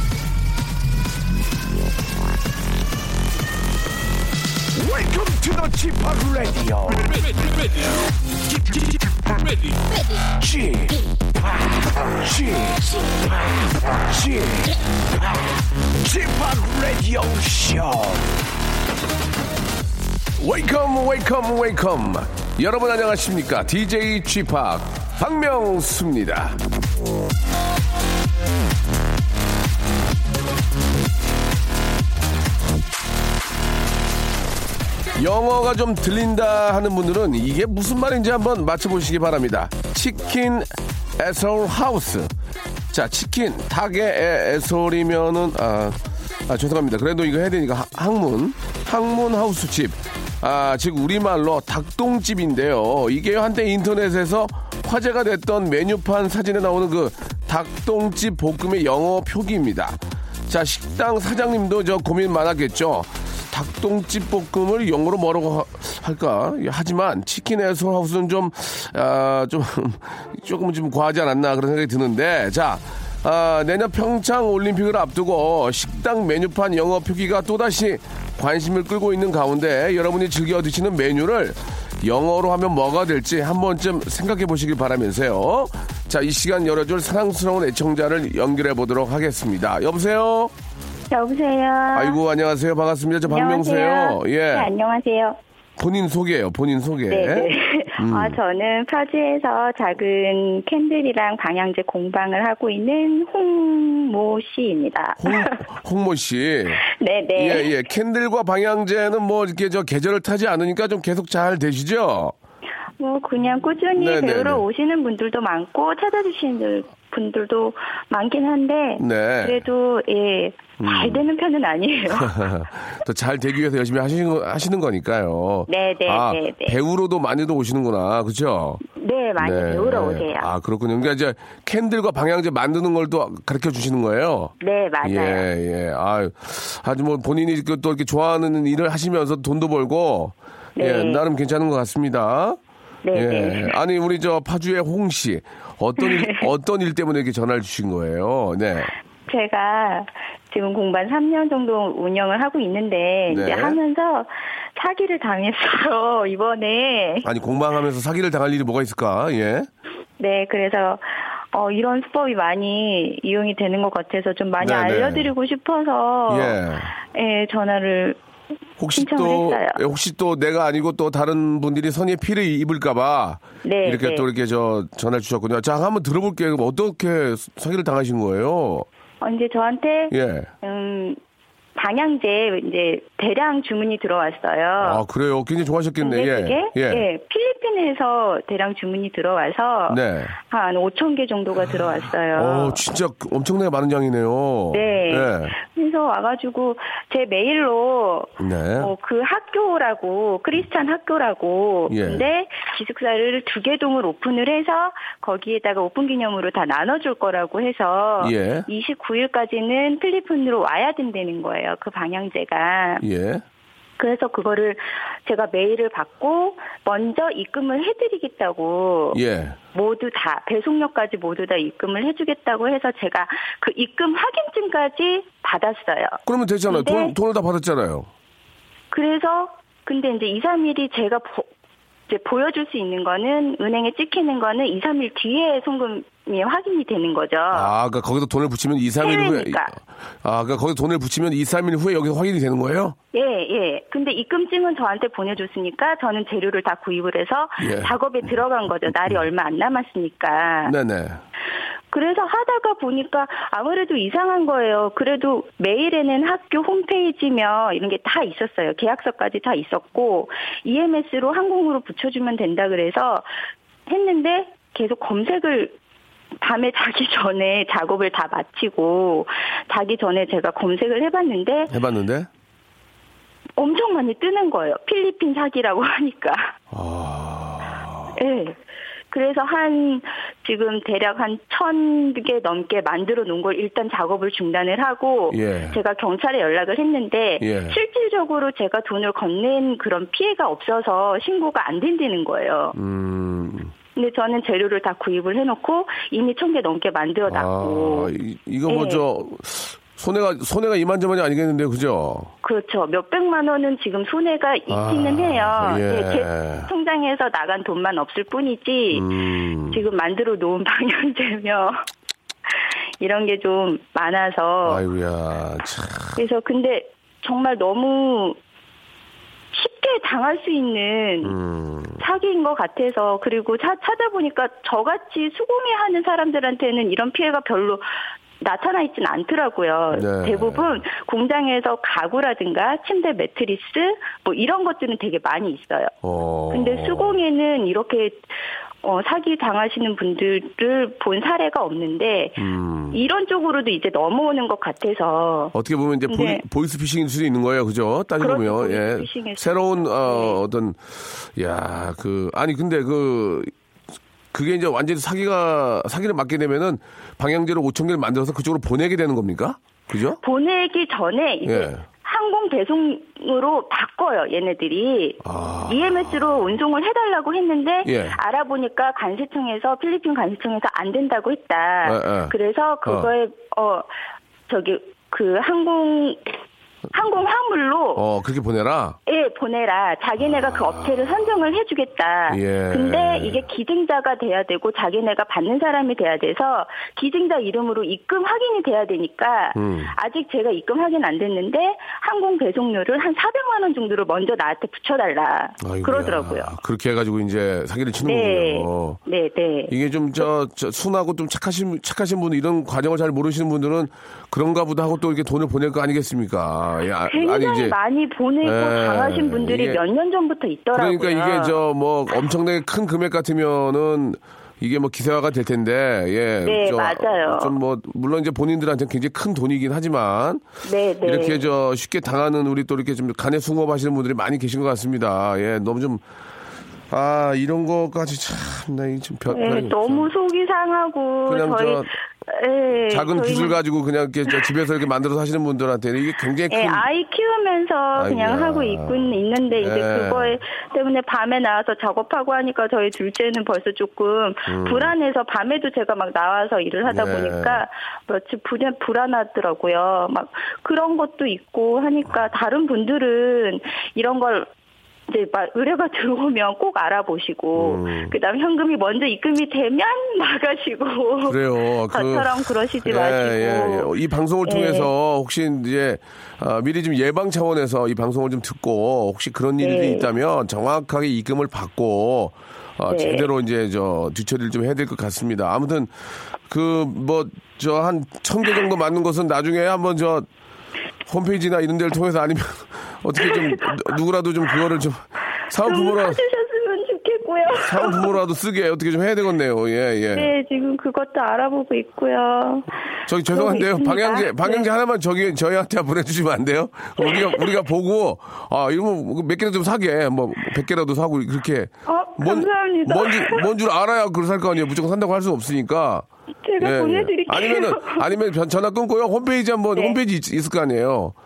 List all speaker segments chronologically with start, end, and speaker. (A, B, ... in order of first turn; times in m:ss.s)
0:04.7-0:07.9 A
0:08.5-0:18.4 A
0:20.4-0:26.6 A
0:35.1-0:42.3 A
0:42.9-1:30.5 A
1:31.1-1:32.2 B
1:31.9-1:34.7 A
1:33.2-1:35.4 B
1:35.8-1:38.4 A
1:37.1-1:45.6 B
1:45.2-1:46.8 A
1:46.8-1:47.7 B
1:47.4-1:52.3 A
1:53.0-2:02.4 B
1:54.0-1:54.6 A
1:59.0-1:59.6 A
2:00.8-2:01.2 A
2:02.1-2:08.8 A
2:05.7-2:06.8 B
2:08.9-2:10.5 B
2:09.4-2:22.6 A
2:14.6-2:15.5 B
2:20.8-2:21.2 B
2:23.0-2:23.8 B
2:23.1-2:28.9 A
2:26.0-2:26.5 B
2:29.3-2:37.3 B
2:33.3-2:33.8 A
2:37.2-2:39.7 A
2:40.2-2:48.2 B
2:44.6-2:45.3 A
2:46.3-2:46.9 A
2:48.8-2:58.8 A
2:48.9-2:49.8 B
2:53.6-2:54.3 B
2:59.2-3:01.2 B
3:00.1-3:00.5 A
3:01.8-3:05.0 B
3:04.8-3:07.0 A
3:06.0-3:12.8 B
3:09.9-3:10.3 A
3:12.3-3:15.5 A
3:14.7-3:33.0 B
3:18.4-3:18.9 A
3:21.9-3:22.2 A
3:28.2-3:28.7 A
3:33.0-3:33.4 A
3:34.0-3:39.2 B
3:39.1-3:39.6 A
3:39.7-3:47.2 B
3:46.2-3:48.1 A
3:48.9-3:51.5 B
3:52.1-3:57.7 B
3:57.5-4:03.0 A
3:59.0-3:59.7 B
4:03.1-4:10.7 B
4:07.6-4:07.9 A
4:10.6-4:11.2 A
4:11.9-4:23.3 B
4:23.9-4:25.7 B
4:26.4-4:31.7 B
4:31.7-4:32.3 A
4:33.6-4:36.5 B
4:36.7-4:38.2 A
4:38.1-4:38.6 B
4:39.1-4:52.8 B
4:45.3-4:45.8 A
4:47.4-4:47.8 A
4:52.7-4:53.7 A
4:53.9-4:58.1 B
4:57.3-5:02.3 A
4:58.7-4:59.0 B
5:02.4-5:09.1 B
5:04.7-5:06.7 A
5:08.9-5:09.8 A
5:09.7-5:11.8 B
5:12.6-5:14.8 B
5:14.6-5:16.2 A
5:16.2-5:18.4 B
5:19.5-5:21.3 B
5:21.2-5:22.0 A
5:22.0-5:27.8 B
5:28.4-5:35.9 B
5:29.9-5:30.8 A
5:36.0-5:37.2 A
5:36.5-5:38.2 B
5:38.8-5:45.5 B
5:42.4-5:43.0 A
5:45.5-5:53.5 A
5:46.1-5:46.4 B
5:48.2-5:50.4 B
5:54.3-6:00.2 A
6:00.2-6:13.9 B
6:01.4-6:01.8 A
6:05.2-6:06.5 A
6:07.8-6:08.2 A
6:11.8-6:12.3 A
6:12.8-6:13.1 A
6:14.5-6:16.4 B
6:16.9-6:18.0 B
6:18.0-6:19.0 A
6:19.0-6:36.5 B
6:20.5-6:20.8 A
6:22.3-6:23.4 A
6:29.5-6:29.9 A
6:35.6-6:39.0 A
6:38.0-6:40.3 B
6:39.7-6:47.8 A
6:47.1-6:51.6 B
6:48.4-6:49.8 A
6:50.7-7:00.4 A
6:56.4-6:57.5 B
7:00.6-7:01.4 B
7:01.0-7:06.0 A
7:06.9-7:10.1 A
7:09.3-7:13.6 B
7:11.3-7:11.9 A
7:12.9-7:16.8 A
7:16.5-7:34.5 B
7:17.9-7:20.4 A
7:24.5-7:24.9 A
7:26.8-7:27.6 A
7:35.1-7:41.4 B
7:37.6-7:38.1 A
7:41.3-7:55.9 A
7:41.9-7:43.9 B
7:44.4-7:44.9 B
7:49.6-7:50.1 B
7:52.9-7:53.3 B
7:56.5-8:00.3 A
8:01.1-8:06.2 A
8:03.2-8:03.7 B
8:05.6-8:08.2 B
8:07.5-8:10.3 A
8:10.1-8:12.7 B
8:13.1-8:26.0 A
8:13.3-8:14.7 B
8:17.0-8:17.5 B
8:21.9-8:23.4 B
8:26.4-8:28.1 B
8:26.6-8:31.1 A